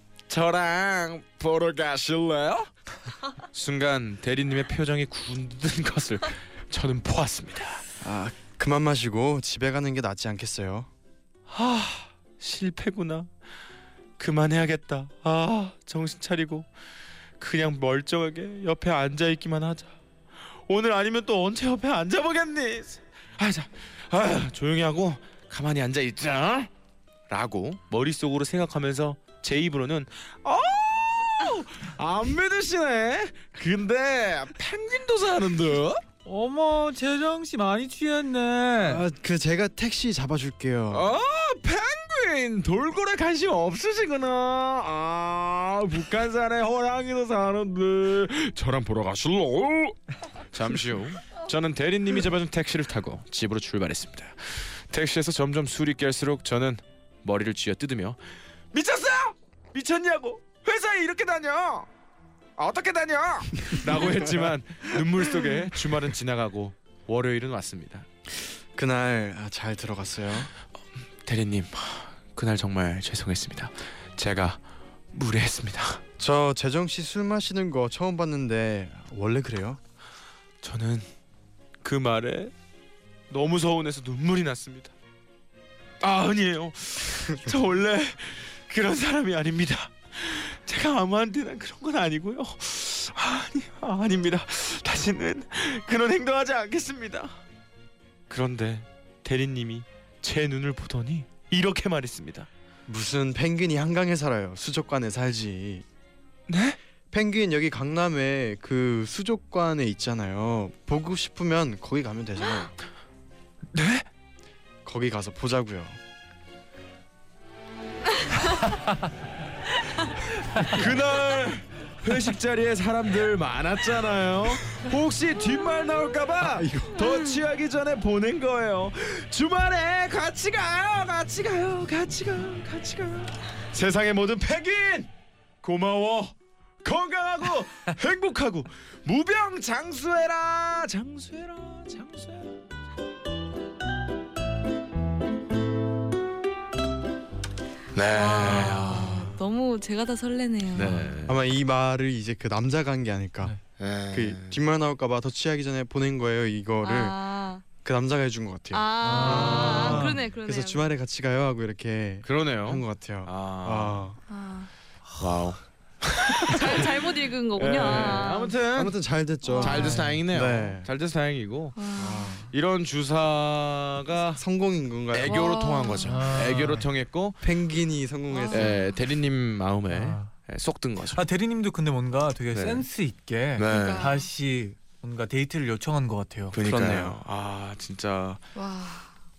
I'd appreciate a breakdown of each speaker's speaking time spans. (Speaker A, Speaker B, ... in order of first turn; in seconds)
Speaker A: 0.3-2.7, 3.5-7.8, 11.5-13.3, 14.2-16.7, 17.4-19.9, 20.7-26.7, 27.3-36.0, 40.9-50.0, 50.5-58.2, 58.7-61.9, 62.6-68.1, 71.2-74.6, 75.1-76.0, 80.6-81.1, 81.8-82.5, 83.3-84.9, 86.0-97.4, 98.3-102.5, 106.5-106.8, 113.7-114.1, 120.6-135.1, 135.6-142.6, 147.9-149.3, 150.7-151.4, 153.8-154.6, 159.2-160.1, 162.2-164.0, 165.2-169.0, 169.6-171.9, 172.5-174.4, 175.1-177.4, 178.5-181.2, 182.5-182.8, 183.6-184.1, 186.5-188.4
Speaker B: 8.0-10.9, 38.8-41.1, 68.8-70.5, 76.2-79.8, 102.9-105.8, 107.1-112.7, 114.8-116.0, 126.4-127.0, 151.3-153.6, 154.1-157.2, 157.8-164.2, 167.8-168.2, 168.7-170.9, 172.0-172.5, 174.4-175.8, 177.4-178.8, 186.6-187.2
Speaker C: 36.2-39.0, 148.9-149.3, 150.8-151.1, 159.0-160.2, 169.7-170.2, 176.0-176.9, 179.9-180.3, 181.1-186.6
Speaker D: 148.1-151.1, 156.8-157.6, 158.7-160.9, 164.3-164.7, 166.4-168.6, 169.4-169.8, 171.8-172.4, 175.3-176.3, 178.3-179.0, 183.7-184.2, 188.6-189.1